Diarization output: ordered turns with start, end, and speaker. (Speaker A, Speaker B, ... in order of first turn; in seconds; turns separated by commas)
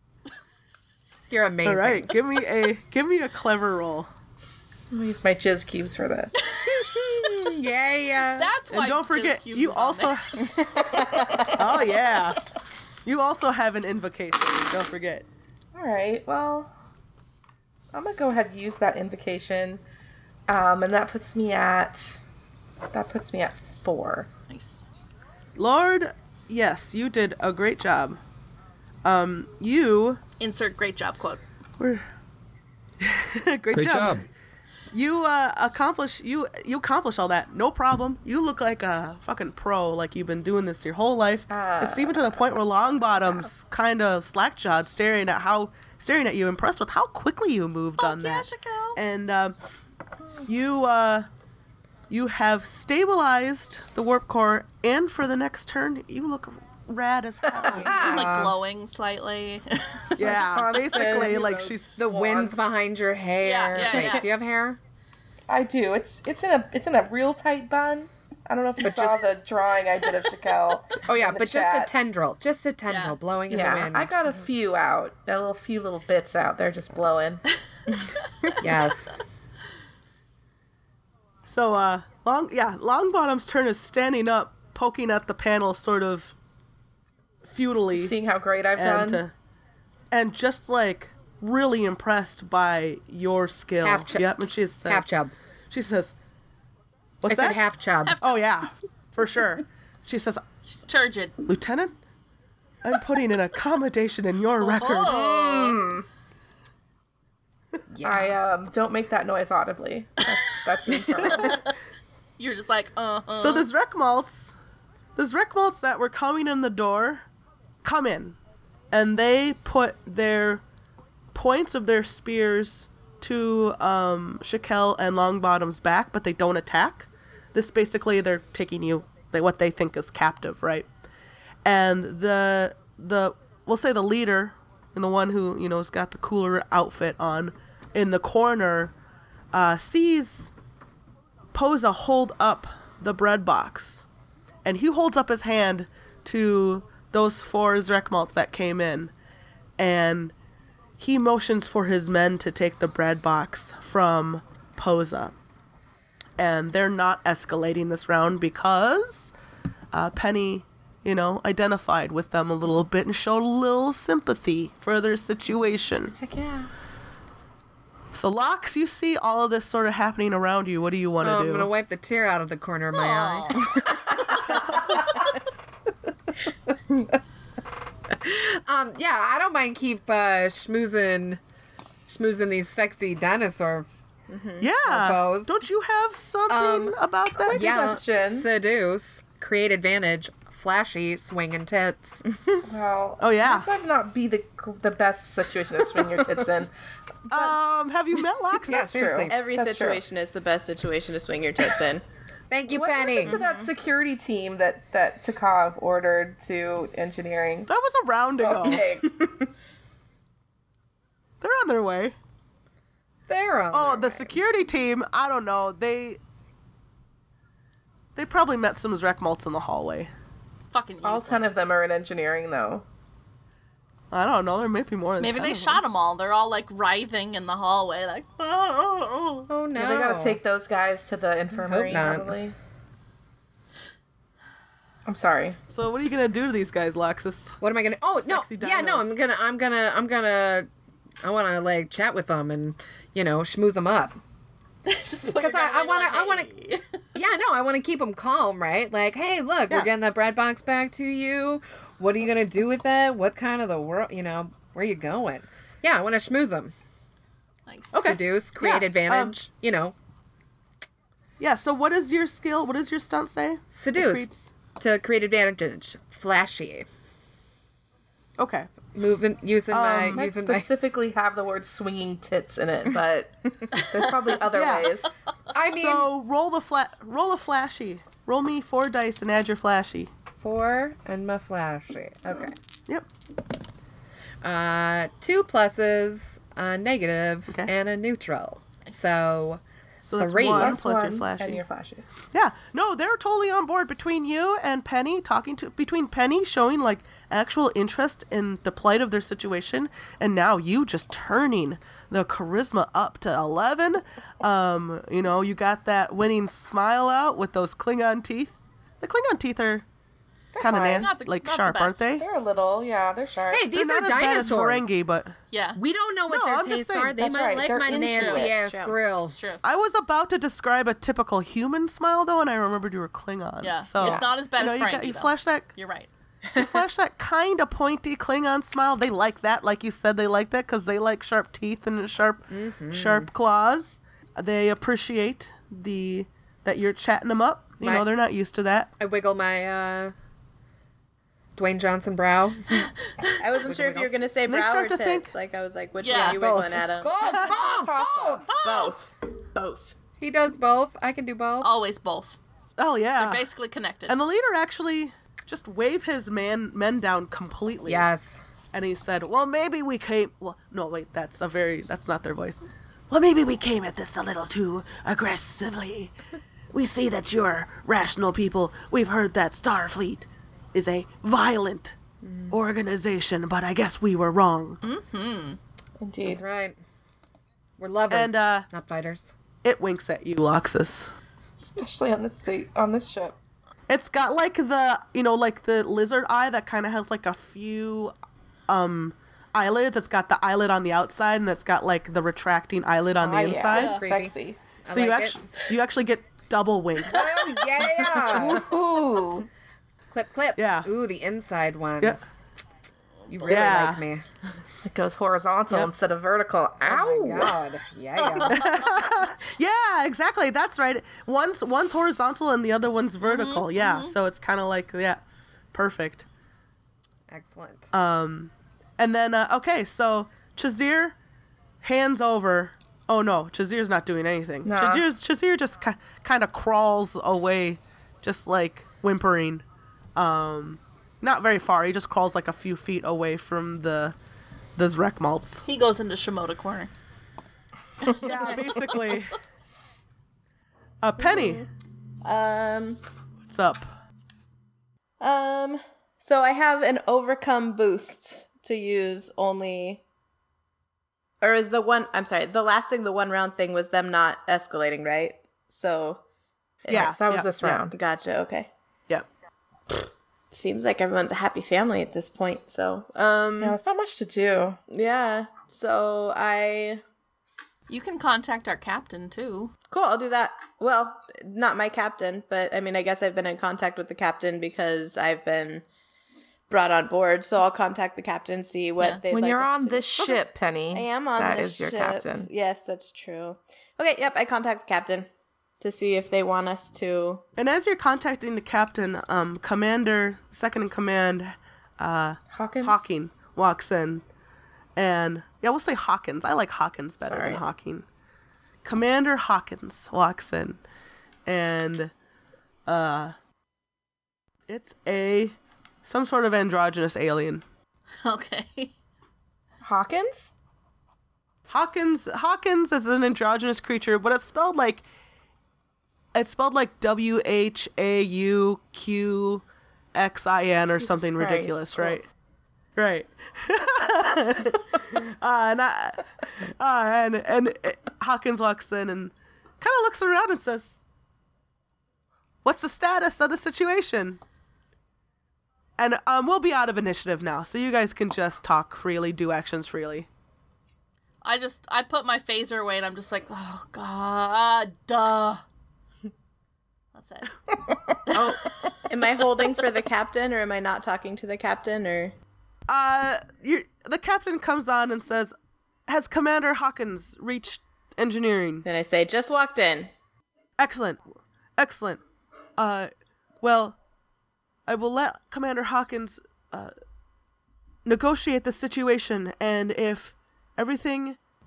Speaker A: 1.3-2.1, Speaker B: 1.6-4.1, Speaker C: 4.9-6.4, Speaker A: 6.6-8.5, Speaker D: 8.3-10.2, Speaker B: 8.7-10.4, Speaker E: 10.4-11.6, Speaker C: 10.9-11.6, Speaker B: 11.5-12.4, Speaker B: 13.0-15.2, Speaker C: 15.7-16.7, Speaker C: 17.9-19.8, Speaker C: 20.5-22.2, Speaker C: 22.9-24.3, Speaker D: 24.5-24.8, Speaker B: 25.6-28.2, Speaker B: 29.0-30.2, Speaker D: 30.4-31.4, Speaker B: 31.8-32.0, Speaker B: 33.0-34.3, Speaker B: 34.9-49.5, Speaker C: 41.5-42.4, Speaker C: 43.1-43.5, Speaker D: 48.0-49.0, Speaker B: 50.5-51.3, Speaker B: 52.1-58.2, Speaker C: 57.5-58.2, Speaker A: 57.6-58.5, Speaker D: 57.8-60.2, Speaker B: 60.1-62.0, Speaker C: 60.2-62.7, Speaker A: 61.2-64.8, Speaker D: 63.4-64.3, Speaker C: 65.5-71.9, Speaker A: 68.8-69.2, Speaker A: 71.0-74.3, Speaker D: 72.9-73.2, Speaker C: 73.5-77.4, Speaker A: 78.6-79.2, Speaker B: 81.5-86.3, Speaker B: 87.4-88.1, Speaker C: 87.9-89.2, Speaker B: 88.8-89.3, Speaker B: 90.1-95.1, Speaker A: 93.8-94.3, Speaker A: 94.8-95.3, Speaker B: 95.7-96.1, Speaker B: 97.2-97.6, Speaker A: 97.3-98.2, Speaker D: 98.0-98.5, Speaker B: 98.2-100.4, Speaker D: 100.7-101.4, Speaker B: 101.4-101.9, Speaker B: 102.8-105.2, Speaker D: 104.6-105.9, Speaker C: 105.0-106.0, Speaker A: 107.9-108.4, Speaker C: 108.0-111.7, Speaker D: 110.9-111.7, Speaker D: 112.4-113.7, Speaker B: 113.3-114.5, Speaker B: 115.2-117.2, Speaker B: 117.8-118.4, Speaker B: 118.9-120.6, Speaker B: 121.3-130.9, Speaker B: 131.6-138.9, Speaker B: 139.5-140.5, Speaker B: 141.5-144.1, Speaker B: 144.6-149.1, Speaker B: 149.8-150.3, Speaker B: 151.0-155.3, Speaker B: 156.4-159.3, Speaker B: 159.9-166.4, Speaker C: 166.2-166.7, Speaker B: 168.1-171.7, Speaker A: 171.2-174.8, Speaker D: 172.9-174.3, Speaker A: 178.1-181.4, Speaker A: 182.1-183.9, Speaker E: 184.3-184.7, Speaker B: 184.6-187.7, Speaker A: 184.8-185.6, Speaker A: 186.5-186.9, Speaker C: 187.4-188.5, Speaker A: 187.5-192.2, Speaker C: 192.6-196.7, Speaker B: 193.2-193.7, Speaker C: 197.3-197.5, Speaker B: 197.3-199.1, Speaker A: 198.7-199.4, Speaker C: 198.7-200.0, Speaker E: 199.3-202.0, Speaker A: 202.5-203.4, Speaker C: 202.7-207.7, Speaker E: 203.2-203.7, Speaker B: 207.7-209.0, Speaker C: 208.4-209.4, Speaker B: 211.4-212.1, Speaker A: 213.3-214.3, Speaker B: 213.7-216.2, Speaker B: 218.2-220.1, Speaker D: 220.7-221.5, Speaker C: 221.0-222.8, Speaker B: 224.1-225.8, Speaker D: 225.2-229.4, Speaker A: 229.5-230.4, Speaker C: 229.7-232.5, Speaker A: 231.6-232.4, Speaker C: 235.1-235.6, Speaker B: 235.7-237.6, Speaker A: 237.6-240.7, Speaker B: 238.2-239.1, Speaker A: 241.2-244.2, Speaker D: 244.8-246.8, Speaker A: 245.3-246.5, Speaker A: 247.1-256.7, Speaker D: 257.7-258.0, Speaker B: 257.9-259.3, Speaker A: 257.9-259.9, Speaker B: 261.4-264.5, Speaker A: 263.7-266.9, Speaker B: 268.4-268.7, Speaker A: 268.8-270.7, Speaker B: 269.7-270.2, Speaker C: 270.1-275.1, Speaker B: 274.5-274.9, Speaker A: 275.5-276.1, Speaker B: 275.6-280.1, Speaker A: 280.4-282.6, Speaker A: 284.4-289.6, Speaker D: 288.9-289.4, Speaker B: 290.0-291.6, Speaker A: 290.2-290.8, Speaker C: 290.4-292.1, Speaker B: 292.3-309.8, Speaker C: 310.5-311.1, Speaker B: 310.6-312.2, Speaker D: 310.9-312.1, Speaker C: 312.1-313.7, Speaker A: 313.5-314.9, Speaker B: 313.7-315.4, Speaker D: 315.5-315.8, Speaker A: 315.8-319.4, Speaker B: 316.3-317.2, Speaker C: 317.2-318.6, Speaker E: 317.9-319.0, Speaker D: 318.0-318.5, Speaker D: 319.2-319.6, Speaker B: 319.6-325.7, Speaker D: 323.6-326.1, Speaker B: 326.5-338.9, Speaker A: 332.5-333.3, Speaker A: 337.8-338.1, Speaker A: 339.0-340.1, Speaker A: 341.6-342.9, Speaker E: 343.4-347.2, Speaker A: 343.6-344.1, Speaker B: 344.4-345.3, Speaker D: 346.0-346.4, Speaker A: 346.2-348.5, Speaker C: 347.2-348.5, Speaker B: 347.2-347.6, Speaker D: 348.5-348.9, Speaker E: 348.6-349.9, Speaker A: 350.2-351.7, Speaker D: 351.6-352.4, Speaker B: 352.8-353.4, Speaker D: 353.2-354.1, Speaker B: 354.1-358.1, Speaker A: 357.9-358.4, Speaker B: 358.7-366.1, Speaker B: 366.7-372.0, Speaker B: 372.5-374.8, Speaker D: 374.8-375.6, Speaker C: 376.0-376.4, Speaker A: 376.2-376.8, Speaker A: 377.8-379.3, Speaker B: 378.1-378.7, Speaker B: 379.6-381.1, Speaker C: 381.6-383.4, Speaker B: 383.9-388.1, Speaker B: 388.7-394.0, Speaker C: 393.2-394.6, Speaker D: 393.7-394.0, Speaker A: 393.7-395.5, Speaker B: 394.9-397.3, Speaker A: 397.0-398.7, Speaker C: 398.3-399.5, Speaker A: 400.1-402.2, Speaker B: 400.6-400.9, Speaker A: 403.3-404.2, Speaker B: 403.4-404.0, Speaker C: 404.9-407.6, Speaker A: 406.8-408.6, Speaker D: 408.2-408.8, Speaker B: 408.4-415.2, Speaker D: 413.2-414.1, Speaker B: 415.7-416.3, Speaker A: 417.3-417.9, Speaker B: 417.9-421.1, Speaker B: 421.8-429.6, Speaker C: 424.6-425.0, Speaker B: 430.1-434.1, Speaker B: 434.8-435.6, Speaker D: 435.6-436.9, Speaker B: 438.0-439.4, Speaker D: 438.1-439.1, Speaker B: 441.0-441.6, Speaker E: 441.2-441.7, Speaker E: 442.2-443.0, Speaker B: 443.5-443.9, Speaker E: 445.2-450.0, Speaker E: 451.4-456.2, Speaker E: 456.8-457.2, Speaker B: 456.9-457.8, Speaker C: 456.9-457.9, Speaker E: 457.9-458.7, Speaker E: 460.5-463.8, Speaker C: 463.6-464.8, Speaker E: 464.9-467.0, Speaker D: 467.9-469.7, Speaker E: 469.9-475.8, Speaker E: 476.7-485.3, Speaker D: 479.0-479.2, Speaker C: 479.3-482.5, Speaker E: 485.8-487.4, Speaker B: 487.6-494.2, Speaker C: 492.5-493.1, Speaker B: 494.9-498.1, Speaker C: 497.2-497.6, Speaker B: 498.8-500.8, Speaker B: 501.4-502.1, Speaker B: 502.9-503.3, Speaker B: 504.7-507.6, Speaker D: 508.2-508.9, Speaker C: 509.8-510.5, Speaker B: 511.7-515.0, Speaker B: 516.3-519.6, Speaker B: 520.1-522.2, Speaker C: 520.9-522.2, Speaker B: 523.0-531.0, Speaker B: 532.6-534.4, Speaker B: 536.0-540.3, Speaker D: 541.4-545.6, Speaker D: 547.1-547.5, Speaker D: 548.3-548.8, Speaker E: 549.1-552.3, Speaker B: 552.9-555.5, Speaker B: 556.1-558.9, Speaker E: 558.8-560.1, Speaker B: 560.8-561.2, Speaker B: 561.8-562.2, Speaker B: 562.8-563.1, Speaker B: 563.6-564.0, Speaker B: 564.9-566.9, Speaker B: 568.0-571.4